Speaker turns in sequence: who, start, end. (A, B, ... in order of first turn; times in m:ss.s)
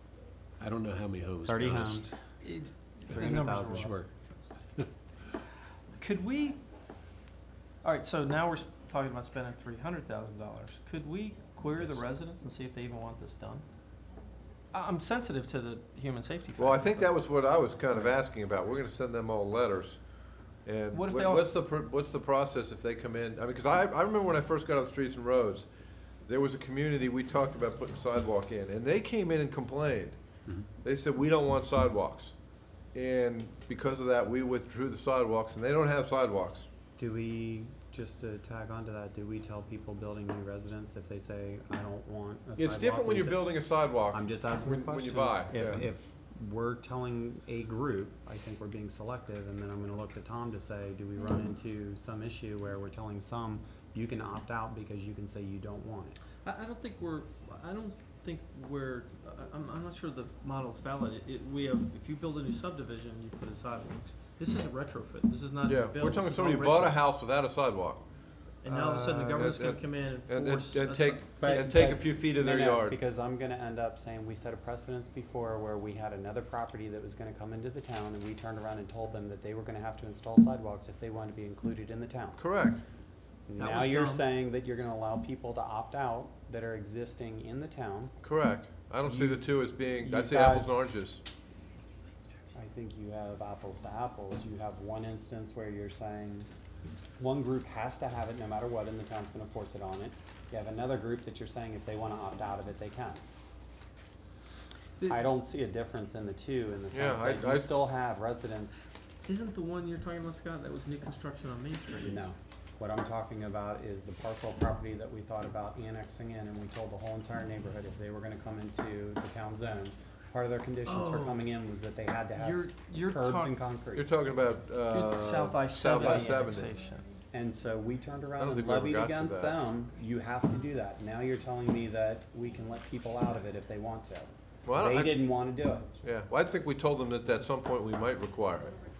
0:00.6-0:02.2 A
0:01.5-0:02.1 B
0:02.4-0:03.9 C
0:03.1-0:03.9 B
0:03.2-0:04.1 A
0:06.0-0:06.6 C
0:07.8-0:13.7 C
0:14.7-0:17.1 C
0:16.6-0:20.0 D
0:20.7-0:25.7 D
0:20.9-0:21.5 C
0:26.3-0:30.2 D
0:30.8-0:32.3 D
0:32.9-0:36.7 D
0:37.0-0:43.4 B
0:42.6-0:45.8 D
0:44.1-0:56.2 B
0:56.4-1:07.0 C
1:05.6-1:08.0 D
1:08.6-1:11.6 C
1:08.7-1:13.0 D
1:11.4-1:22.4 B
1:22.4-1:22.8 D
1:23.5-1:28.1 B
1:23.6-1:24.2 C
1:28.2-1:31.2 D
1:29.1-1:29.4 B
1:30.0-1:30.7 B
1:32.5-1:36.5 B
1:37.2-1:43.2 B
1:45.0-1:48.9 B
1:46.9-1:47.7 D
1:49.3-1:52.3 C
1:52.0-2:04.1 B
2:00.9-2:01.4 C
2:02.4-2:03.6 C
2:04.0-2:06.8 D
2:04.9-2:07.1 C
2:07.3-2:15.9 B
2:08.4-2:09.6 D
2:14.7-2:15.3 D
2:16.0-2:18.7 D